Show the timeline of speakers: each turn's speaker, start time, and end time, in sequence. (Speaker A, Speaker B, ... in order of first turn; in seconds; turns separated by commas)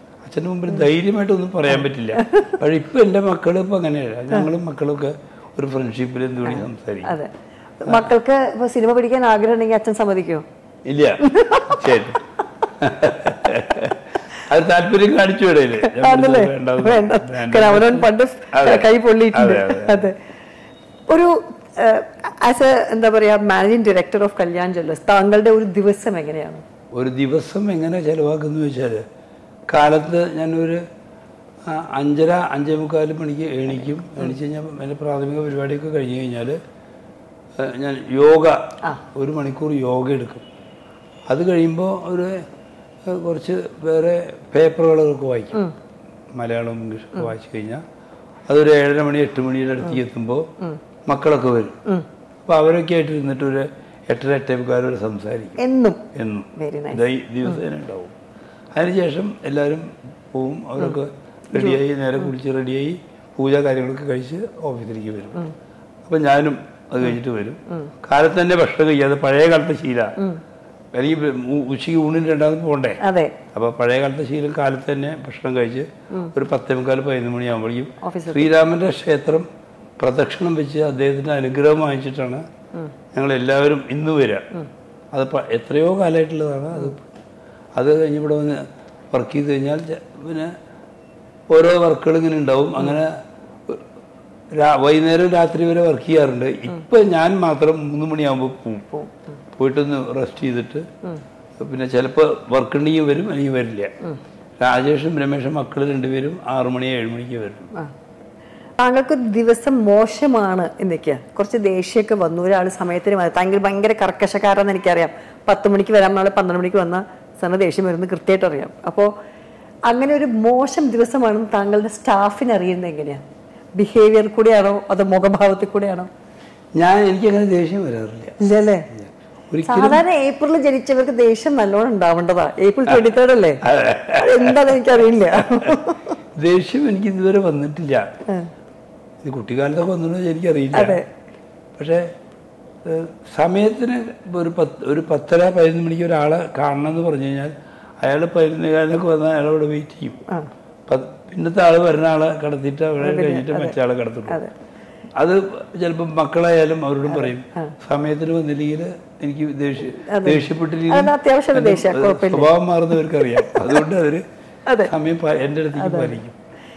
Speaker A: 0.2-7.1, Speaker B: 1.7-2.5, Speaker B: 6.4-10.4, Speaker A: 10.8-20.1, Speaker B: 11.2-12.0, Speaker B: 15.8-20.1, Speaker B: 21.1-26.6, Speaker A: 26.9-29.1, Speaker A: 29.7-30.8, Speaker A: 31.6-36.6, Speaker A: 37.5-40.4, Speaker A: 41.3-42.5, Speaker A: 43.0-45.6, Speaker A: 46.3-47.8, Speaker A: 48.5-50.5, Speaker A: 51.0-51.8, Speaker A: 52.5-55.6, Speaker B: 55.6-57.6, Speaker A: 56.1-58.1, Speaker A: 58.7-65.4, Speaker B: 61.5-61.8, Speaker A: 66.0-70.2, Speaker A: 70.9-73.0, Speaker B: 73.0-73.3, Speaker A: 73.5-79.5, Speaker B: 78.0-78.5, Speaker A: 80.0-82.4, Speaker A: 83.1-84.5, Speaker A: 85.1-87.0, Speaker A: 87.8-90.5, Speaker A: 91.5-93.2, Speaker A: 94.5-98.9, Speaker B: 98.9-99.2, Speaker A: 99.5-100.9, Speaker A: 101.6-103.9, Speaker A: 104.6-107.7, Speaker B: 108.8-119.1, Speaker B: 119.9-123.2, Speaker B: 123.8-126.1, Speaker A: 126.8-128.4, Speaker B: 128.4-128.9, Speaker A: 128.9-130.0, Speaker B: 129.6-133.6, Speaker A: 133.6-135.8, Speaker B: 134.2-136.1, Speaker A: 136.3-138.1, Speaker A: 139.2-141.0, Speaker B: 140.7-141.1, Speaker A: 141.8-142.1, Speaker A: 142.8-150.2, Speaker A: 150.9-154.4, Speaker B: 153.0-153.7, Speaker A: 155.2-164.2, Speaker B: 157.2-157.7, Speaker B: 160.1-162.5, Speaker B: 163.3-163.8, Speaker B: 164.7-164.9, Speaker A: 164.8-166.3, Speaker B: 165.8-166.2